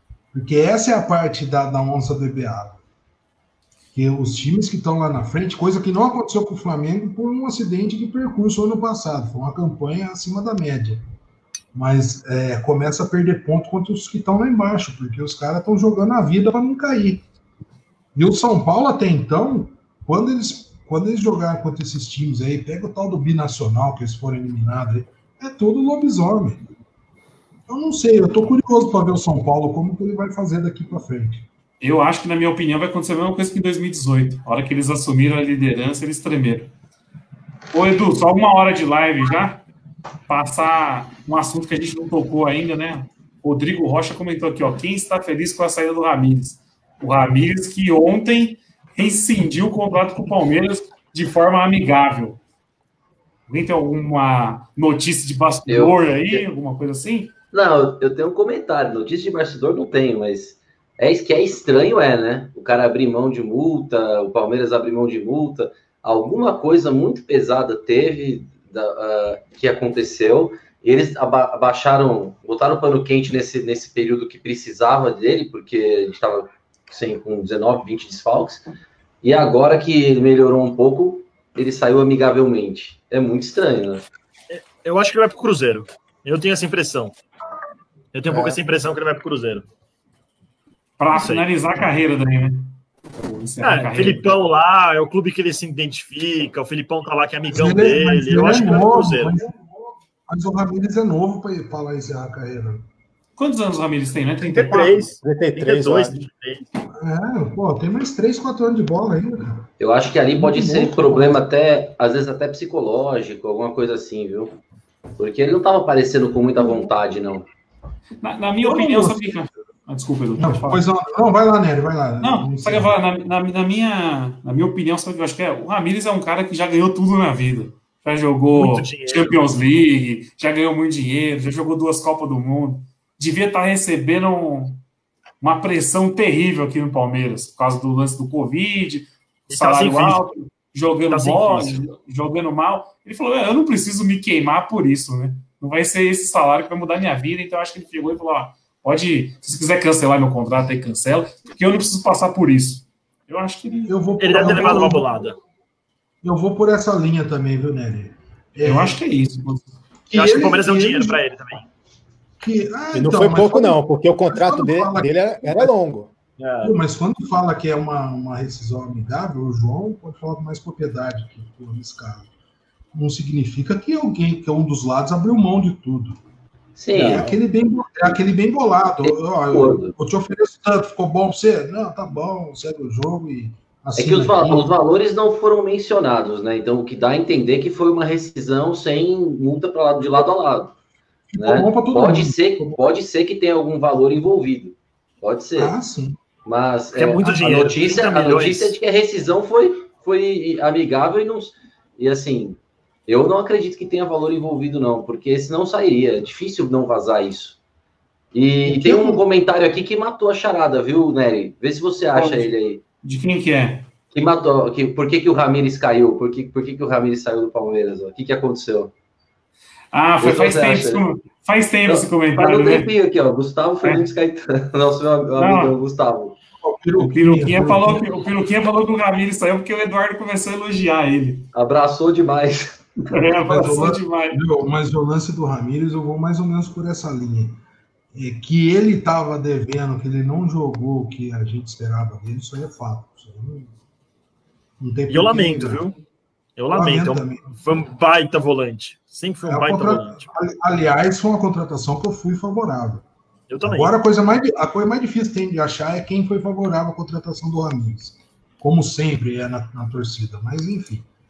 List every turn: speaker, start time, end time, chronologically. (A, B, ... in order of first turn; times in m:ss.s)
0:00.3-0:02.8 A
0:03.9-0:11.0 A
0:11.7-0:17.2 A
0:18.1-0:26.7 A
0:27.7-0:31.4 A
0:31.8-0:36.7 B
0:37.7-0:39.6 B
0:40.3-0:52.4 B
0:53.5-0:57.3 B
0:55.7-0:56.4 C
0:57.5-1:18.6 C
1:19.2-1:24.0 C
1:24.5-1:27.1 D
1:28.1-1:29.6 D
1:28.3-1:28.6 E
1:31.0-1:34.3 B
1:31.1-1:31.4 D
1:33.6-1:39.4 D
1:37.5-1:39.7 A
1:40.3-1:42.8 A
1:43.4-1:45.1 B
1:44.4-1:46.6 D
1:45.2-1:46.2 E
1:46.9-1:49.7 A
1:49.8-1:54.6 C
1:50.4-1:51.4 A
1:55.2-1:57.5 C
1:58.2-2:00.8 B
1:58.6-1:59.3 A
2:00.4-2:03.0 A
2:02.2-2:14.8 B
2:08.5-2:09.5 D
2:15.4-2:34.8 B
2:19.5-2:20.2 D
2:21.1-2:21.8 D
2:33.9-2:35.1 A
2:34.2-2:35.4 D
2:36.2-2:39.0 A
2:38.6-2:39.7 B
2:40.1-2:41.2 A
2:40.1-2:41.6 D
2:42.4-2:45.7 A
2:42.9-2:46.1 E
2:46.4-2:46.8 D
2:46.6-2:52.3 A
2:52.9-2:56.2 A
2:56.8-2:57.3 C
2:56.9-3:04.7 A
2:59.0-2:59.9 C
3:04.0-3:10.7 C
3:11.3-3:12.8 A
3:11.4-3:15.7 C
3:15.6-3:16.2 A
3:16.4-3:27.6 C
3:16.9-3:18.7 D
3:17.3-3:17.6 A
3:28.3-3:32.8 C
3:28.6-3:29.2 A
3:32.1-3:32.5 B
3:33.0-3:33.8 B
3:34.1-3:38.9 C
3:39.9-3:42.9 B
3:40.2-3:41.0 C
3:41.9-3:46.4 C
3:45.4-3:45.7 B
3:46.6-3:48.1 A
3:47.0-3:51.5 B
3:51.5-3:52.8 C
3:53.1-3:54.4 B
3:53.5-3:57.6 A
3:58.1-4:03.7 A
4:04.8-4:05.9 A
4:05.1-4:06.0 D
4:06.6-4:10.3 D
4:06.7-4:07.8 A
4:09.4-4:13.0 A
4:13.5-4:13.9 D
4:13.6-4:21.1 A